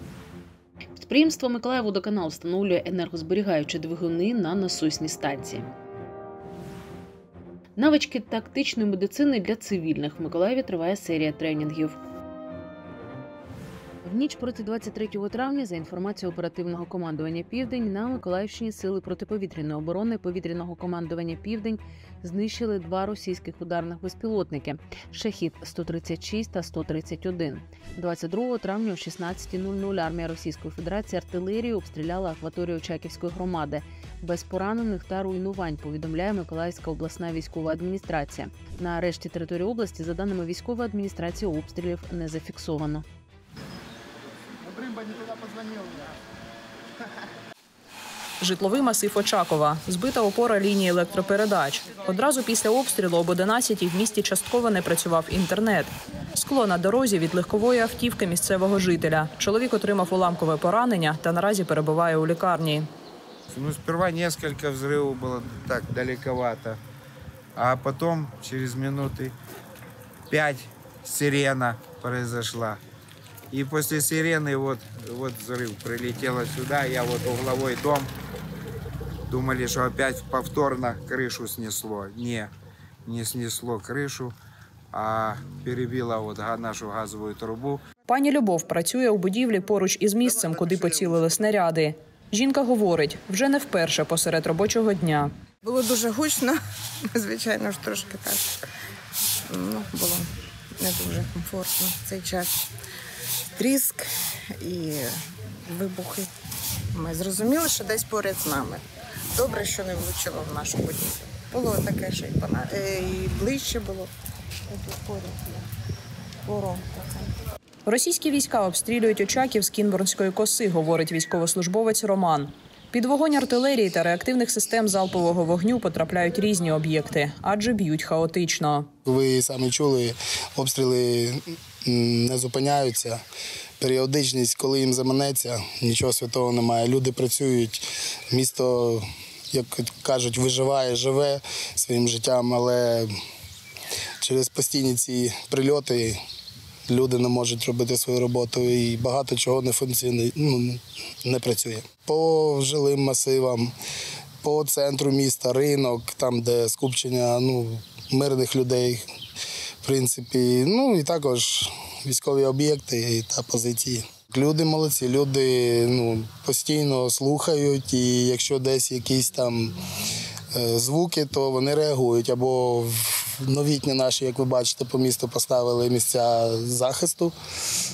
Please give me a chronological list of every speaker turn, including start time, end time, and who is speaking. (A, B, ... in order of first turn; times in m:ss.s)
0:01.0-0:05.7 A
0:07.8-0:12.0 A
0:14.0-0:43.0 A
0:48.4-1:02.9 B
1:03.5-1:06.8 C
1:07.6-1:09.3 C
1:10.3-1:12.8 C
1:13.5-1:18.1 C
1:19.3-1:22.5 C
1:23.1-1:24.3 C
1:24.9-1:27.8 C
1:28.1-1:35.3 B
1:35.7-1:36.5 D
1:37.2-1:38.4 D
1:39.5-1:40.2 D
1:40.8-1:42.5 D
1:43.6-1:44.0 D
1:44.6-1:45.1 D
1:45.7-1:46.2 D
1:47.0-1:48.8 D
1:49.4-1:52.9 D
1:53.6-1:54.1 D
1:54.9-1:55.3 D
1:56.5-1:57.3 D
1:57.9-2:08.9 B
2:09.1-2:13.2 E
2:13.8-2:23.1 E
2:24.2-2:26.2 E
2:26.9-2:33.7 E
2:34.4-2:39.0 E
2:39.8-2:49.8 E
2:50.5-2:57.3 E